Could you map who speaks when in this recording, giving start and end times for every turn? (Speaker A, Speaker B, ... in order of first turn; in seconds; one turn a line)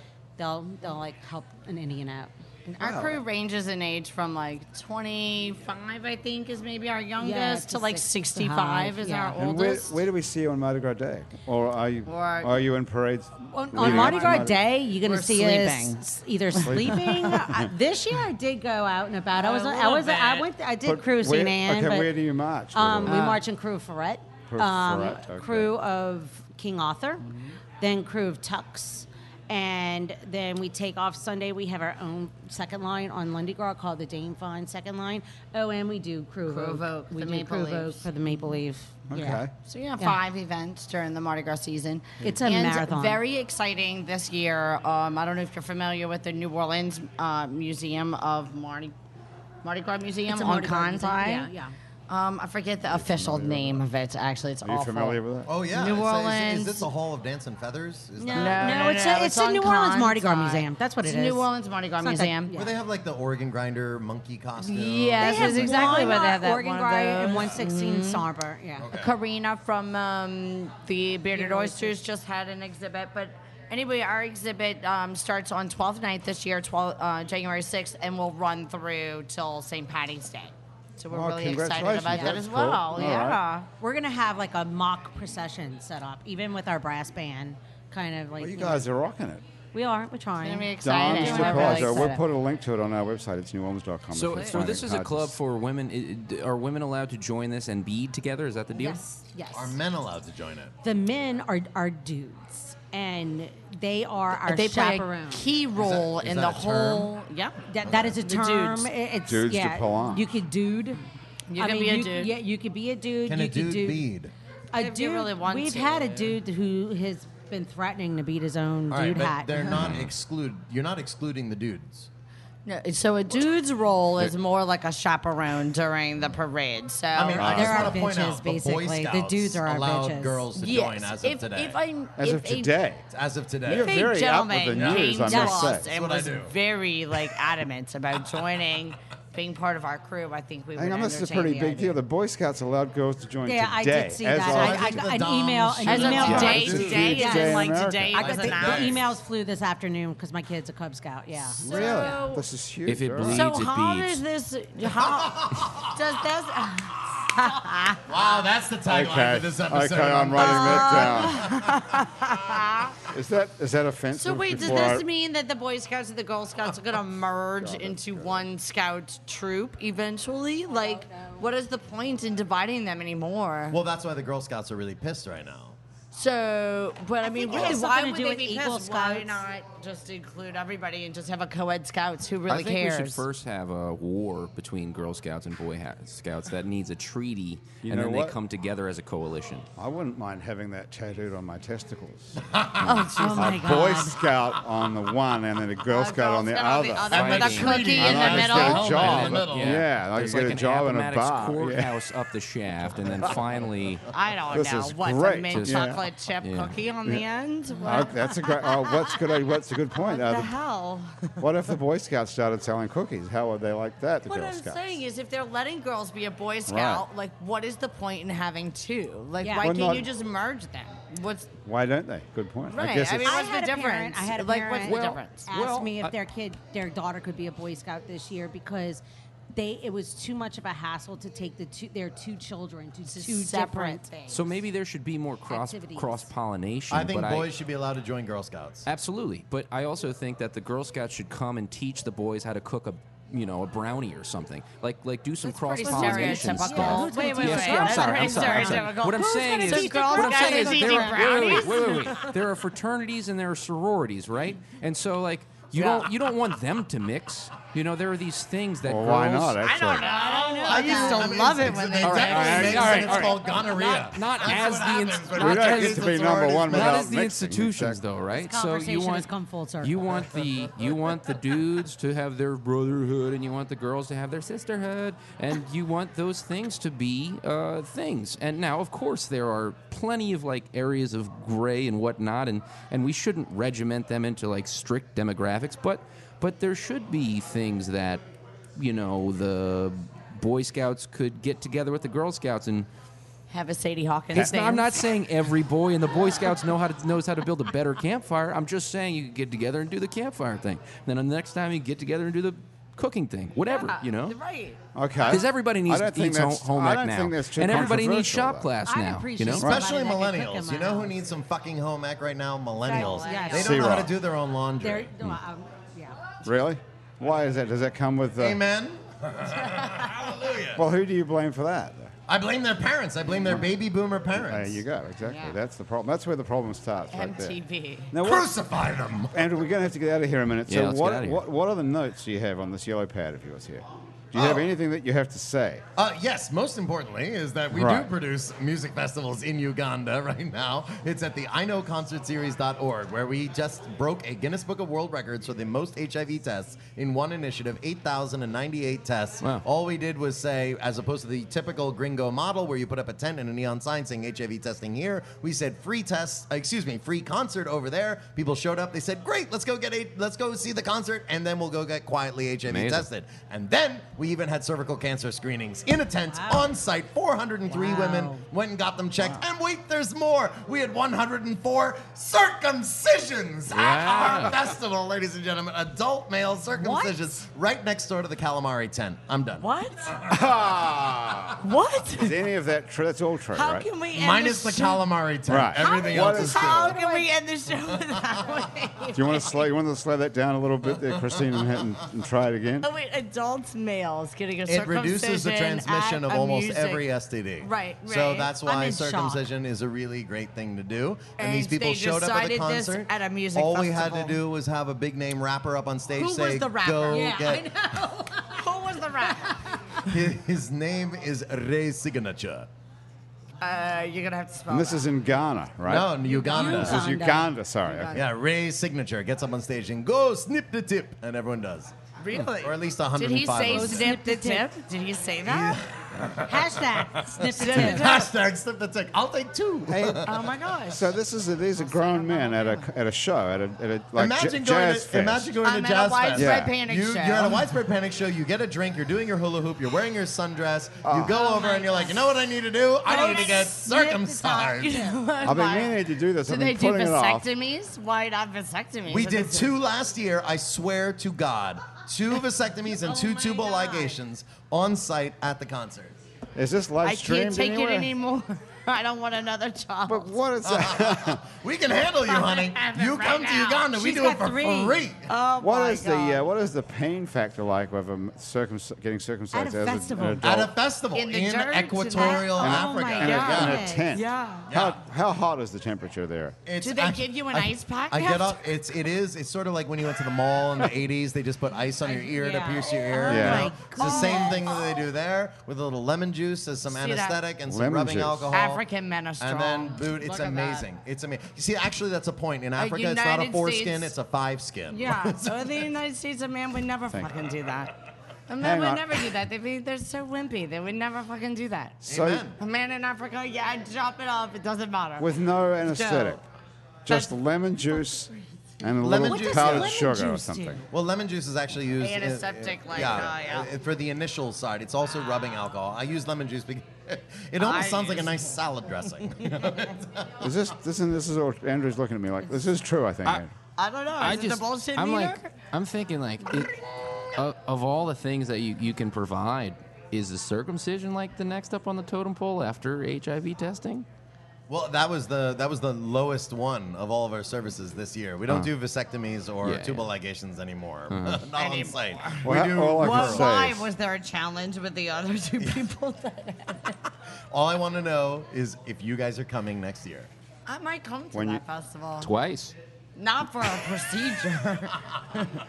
Speaker A: 0.4-2.3
Speaker B: 2.7-9.9
Speaker C: 2.8-3.2
Speaker A: 7.2-9.4
Speaker C: 9.4-14.6
Speaker B: 12.1-12.5
Speaker A: 13.4-22.1
Speaker B: 13.8-14.4
Speaker B: 14.9-16.0
Speaker C: 16.6-17.7
Speaker B: 16.7-17.4
Speaker B: 19.4-20.5
Speaker C: 20.8-23.3
Speaker A: 22.7-27.2
Speaker B: 23.1-23.4
Speaker C: 24.5-25.7
Speaker B: 27.3-27.5
Speaker A: 27.8-39.5
Speaker B: 36.5-38.1
Speaker C: 39.1-39.5
Speaker B: 39.6-48.9
Speaker A: 42.2-43.2
Speaker B: 49.6-51.5
Speaker A: 50.3-51.7
Speaker B: 52.1-56.9
Speaker C: 52.9-53.8
Speaker C: 54.6-55.5
Speaker D: 55.5-59.1
Speaker A: 58.2-61.5
Speaker B: 58.3-62.5
Speaker A: 62.0-62.8
Speaker D: 62.5-66.1
Speaker B: 64.6-68.2
Speaker A: 65.2-68.9
Speaker D: 68.8-69.2
Speaker B: 68.9-83.7
Speaker A: 71.3-72.0
Speaker C: 81.1-83.4
Speaker A: 82.1-82.3
Speaker A: 83.8-88.9
Speaker C: 88.4-89.4
Speaker A: 89.7-92.2
Speaker B: 90.4-92.2
Speaker C: 90.8-95.4
Speaker E: 94.1-99.0
Speaker B: 94.4-94.8
Speaker A: 98.7-99.8
Speaker D: 99.5-100.7
Speaker A: 100.8-105.5
Speaker B: 104.4-108.9
Speaker D: 105.7-107.1
Speaker A: 107.6-111.0
Speaker D: 107.8-108.1
Speaker C: 109.2-110.3
Speaker B: 111.5-112.3
Speaker A: 111.5-114.1
Speaker D: 113.2-114.3
Speaker A: 114.7-119.7
Speaker B: 114.8-116.4
Speaker D: 118.9-122.1
Speaker E: 119.7-120.1
Speaker B: 122.7-127.9
Speaker D: 127.1-131.8
Speaker A: 127.3-130.4
Speaker C: 127.4-128.0
Speaker B: 130.5-132.8
Speaker C: 132.2-133.0
Speaker D: 133.1-134.0
Speaker C: 133.6-135.9
Speaker B: 133.7-142.0
Speaker D: 134.7-136.5
Speaker A: 135.2-135.6
Speaker C: 140.8-145.2
Speaker A: 143.4-152.2
Speaker D: 144.4-147.3
Speaker B: 145.8-149.0
Speaker C: 146.1-148.2
Speaker D: 148.2-149.0
Speaker B: 151.5-152.4
Speaker C: 151.6-153.5
Speaker E: 152.8-154.2
Speaker B: 153.2-158.0
Speaker D: 155.2-155.9
Speaker D: 158.1-161.7
Speaker C: 158.8-161.6
Speaker B: 160.3-163.0
Speaker C: 163.1-165.0
Speaker B: 164.1-173.8
Speaker C: 167.6-168.4
Speaker D: 173.7-175.8
Speaker B: 176.1-183.2
Speaker A: 177.2-179.4
Speaker D: 177.5-177.8
Speaker E: 182.5-189.7
Speaker C: 187.8-188.3
Speaker C: 189.8-201.9
Speaker D: 192.5-193.2
Speaker B: 192.8-193.9
Speaker A: 192.9-194.1
Speaker B: 195.9-199.4
Speaker D: 197.1-199.8
Speaker E: 197.3-197.7
Speaker E: 199.1-204.0
Speaker B: 204.1-209.2
Speaker C: 204.5-206.0
Speaker E: 205.5-205.9
Speaker E: 206.4-206.8
Speaker C: 207.8-210.5
Speaker B: 209.9-211.4
Speaker C: 211.4-214.8
Speaker B: 214.2-221.5
Speaker C: 216.7-217.0
Speaker A: 219.4-219.7
Speaker C: 219.6-220.1
Speaker C: 221.6-223.4
Speaker B: 222.7-225.4
Speaker A: 223.2-229.0
Speaker E: 224.8-226.1
Speaker A: 229.5-234.1
Speaker B: 233.1-234.4
Speaker E: 234.3-237.5
Speaker A: 235.5-236.3
Speaker D: 236.9-238.8
Speaker E: 238.8-259.6
Speaker B: 245.4-252.3
Speaker A: 245.8-252.3
Speaker B: 255.7-256.1
Speaker C: 258.8-260.1
Speaker B: 259.6-263.2
Speaker A: 259.9-261.4
Speaker D: 260.6-267.1
Speaker E: 262.0-269.3
Speaker C: 262.0-263.4
Speaker C: 265.3-268.0
Speaker A: 268.3-270.0
Speaker E: 269.8-288.2
Speaker E: 288.8-292.9
Speaker B: 293.5-295.1
Speaker E: 294.3-304.4
Speaker B: 303.7-304.8
Speaker C: 304.9-308.7
Speaker E: 305.3-309.7
Speaker A: 308.8-311.2
Speaker C: 309.6-309.8
Speaker D: 309.6-315.1
Speaker B: 312.8-313.8
Speaker A: 312.8-314.1
Speaker C: 313.5-314.2
Speaker A: 314.8-316.2
Speaker C: 316.4-318.6
Speaker D: 318.4-320.8
Speaker C: 320.7-322.1
Speaker D: 322.3-324.8
Speaker C: 324.3-327.6
Speaker B: 325.2-325.5
Speaker B: 327.1-328.1
Speaker C: 328.1-328.6
Speaker D: 328.2-329.5
Speaker C: 329.3-335.8
Speaker E: 330.7-331.4
Speaker D: 334.3-334.7
Speaker D: 335.9-379.7
Speaker C: 337.7-338.1
Speaker E: 362.7-363.1
Speaker A: 366.3-366.7
Speaker A: 367.7-368.4
Speaker E: 373.7-374.6
Speaker A: 376.8-377.4
Speaker B: 379.6-380.1
Speaker C: 380.3-383.9
Speaker B: 381.6-382.4
Speaker B: 383.5-385.1
Speaker D: 384.1-387.0
Speaker C: 385.5-386.9
Speaker B: 385.8-389.6
Speaker A: 386.6-387.3
Speaker C: 389.1-392.9
Speaker B: 392.8-397.1
Speaker D: 394.6-407.7
Speaker B: 397.6-398.5
Speaker A: 398.6-399.4
Speaker B: 401.4-404.4
Speaker B: 406.2-407.4
Speaker A: 407.1-410.1
Speaker B: 408.5-409.6
Speaker D: 410.1-412.7
Speaker B: 413.6-415.1
Speaker C: 414.7-418.2
Speaker D: 415.8-417.0
Speaker A: 416.3-417.5
Speaker B: 416.4-416.7
Speaker B: 417.9-418.2
Speaker D: 418.1-421.9
Speaker B: 422.2-425.8
Speaker D: 422.6-424.1
Speaker A: 423.6-424.7
Speaker D: 425.4-430.4
Speaker A: 426.4-428.3
Speaker B: 427.5-428.3
Speaker C: 429.9-430.3
Speaker B: 430.2-431.1
Speaker C: 430.9-435.5
Speaker B: 431.8-432.9
Speaker D: 434.1-445.1
Speaker B: 435.6-437.6
Speaker C: 436.3-436.8
Speaker C: 441.0-441.4
Speaker B: 441.3-442.3
Speaker B: 443.0-443.8
Speaker A: 443.0-445.2
Speaker B: 444.8-449.7
Speaker C: 445.4-447.5
Speaker D: 449.1-456.2
Speaker B: 453.0-454.2
Speaker C: 456.5-458.1
Speaker B: 457.0-460.4
Speaker C: 460.1-461.4
Speaker D: 460.6-465.3
Speaker B: 462.2-464.1
Speaker A: 463.9-465.0
Speaker B: 465.2-466.4
Speaker C: 465.6-470.7
Speaker B: 469.6-470.4
Speaker A: 469.6-470.4
Speaker D: 470.4-473.9
Speaker B: 471.1-472.7
Speaker A: 472.1-474.1
Speaker C: 472.6-476.6
Speaker B: 473.2-474.7
Speaker D: 474.7-475.0
Speaker D: 476.7-488.8
Speaker B: 476.8-478.6
Speaker B: 482.0-484.8
Speaker A: 482.3-484.7
Speaker C: 483.2-483.8
Speaker B: 486.9-487.4
Speaker C: 487.6-488.6
Speaker B: 488.5-490.8
Speaker D: 489.4-495.9
Speaker B: 492.8-494.1
Speaker B: 494.9-497.9
Speaker B: 498.5-502.0
Speaker C: 498.6-499.2
Speaker D: 502.0-502.6
Speaker C: 502.1-502.5
Speaker B: 502.6-505.3
Speaker C: 505.2-506.4
Speaker B: 505.8-506.4
Speaker C: 507.1-510.8
Speaker D: 509.0-509.9
Speaker A: 509.3-510.8
Speaker D: 510.9-520.4
Speaker B: 512.0-513.7
Speaker B: 517.6-518.4
Speaker C: 520.4-523.5
Speaker B: 523.8-525.5
Speaker E: 524.2-534.0
Speaker D: 534.7-543.5
Speaker E: 539.6-540.1
Speaker E: 541.1-541.5
Speaker B: 541.5-547.0
Speaker C: 542.4-543.9
Speaker D: 547.5-550.3
Speaker B: 550.7-552.3
Speaker C: 551.3-551.6
Speaker E: 552.2-552.7
Speaker B: 553.1-555.5